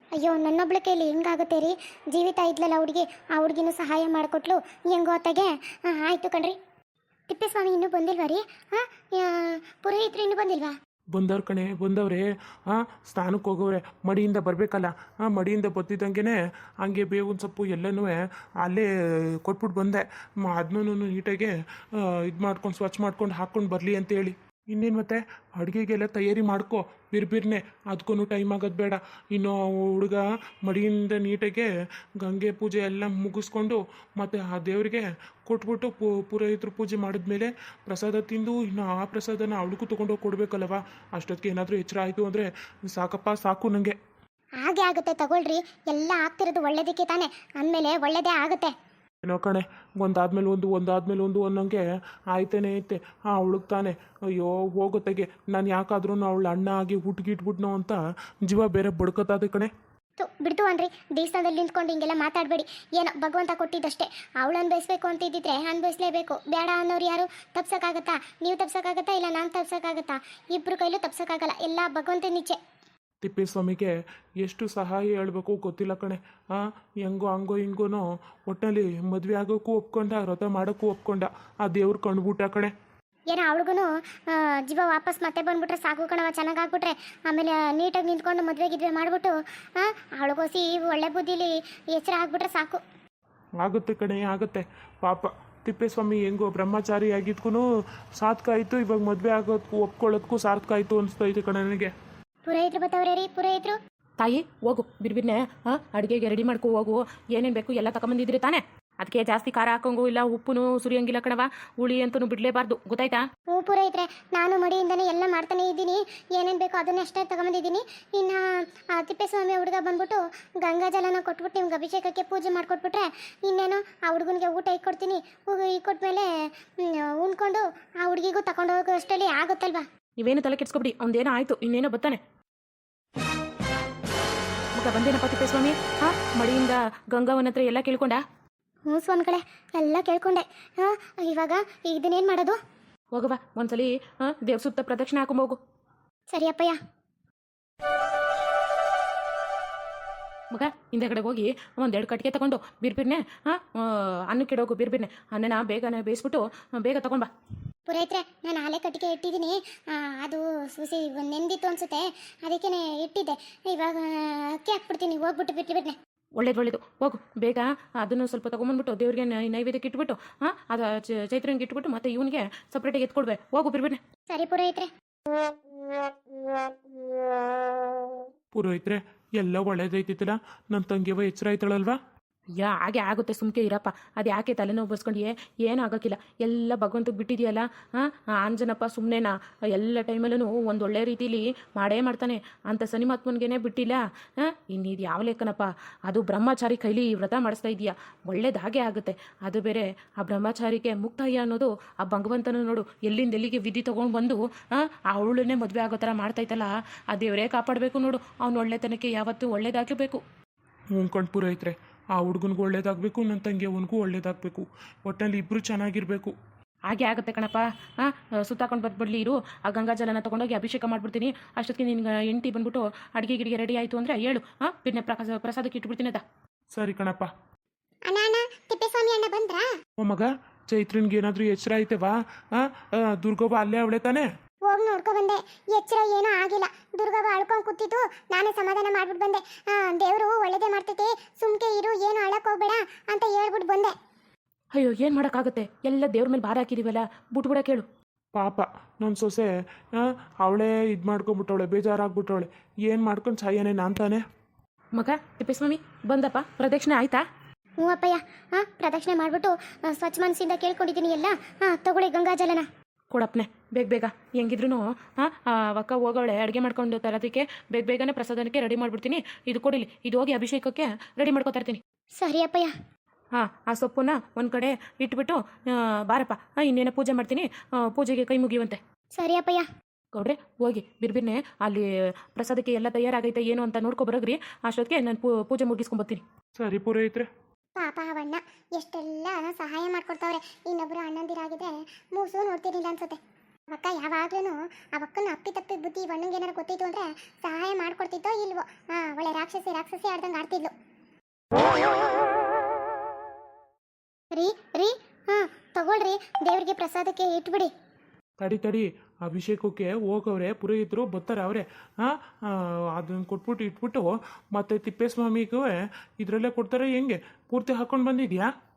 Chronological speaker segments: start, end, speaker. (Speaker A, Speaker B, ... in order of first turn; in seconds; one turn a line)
Speaker A: 0.2-6.6
Speaker A: 7.3-10.8
Speaker B: 11.1-18.9
Speaker B: 19.4-31.7
Speaker B: 32.2-44.0
Speaker A: 44.6-48.7
Speaker B: 49.2-59.7
Speaker A: 60.2-72.6
Speaker B: 73.2-82.7
Speaker A: 83.3-92.8
Speaker B: 93.6-97.7
Speaker B: 98.2-101.9
Speaker A: 102.5-103.8
Speaker C: 104.2-113.2
Speaker A: 113.5-126.3
Speaker A: 126.8-129.9
Speaker C: 130.2-132.2
Speaker C: 134.7-138.2
Speaker A: 138.9-142.6
Speaker C: 143.1-145.6
Speaker A: 146.3-146.8
Speaker C: 150.5-157.3
Speaker A: 157.9-166.0
Speaker C: 166.4-174.0
Speaker A: 174.3-174.9
Speaker B: 178.5-182.0
Speaker C: 182.6-210.2
Speaker B: 210.9-216.3
Speaker C: 216.9-226.2
Speaker B: 226.7-227.3
Speaker A: 228.1-229.7
Speaker B: 230.0-234.3
Speaker A: 234.7-243.9
Speaker C: 244.7-247.9
Speaker B: 248.3-254.2
Speaker C: 254.9-257.2
Speaker A: 257.8-262.7
Speaker C: 263.1-271.8
Speaker A: 272.2-272.7
Speaker C: 273.3-278.8
Speaker A: 279.2-279.6
Speaker C: 280.1-286.2
Speaker B: 286.6-287.3
Speaker A: 287.8-293.2
Speaker A: 293.7-300.7
Speaker A: 304.3-307.7
Speaker B: 308.4-318.5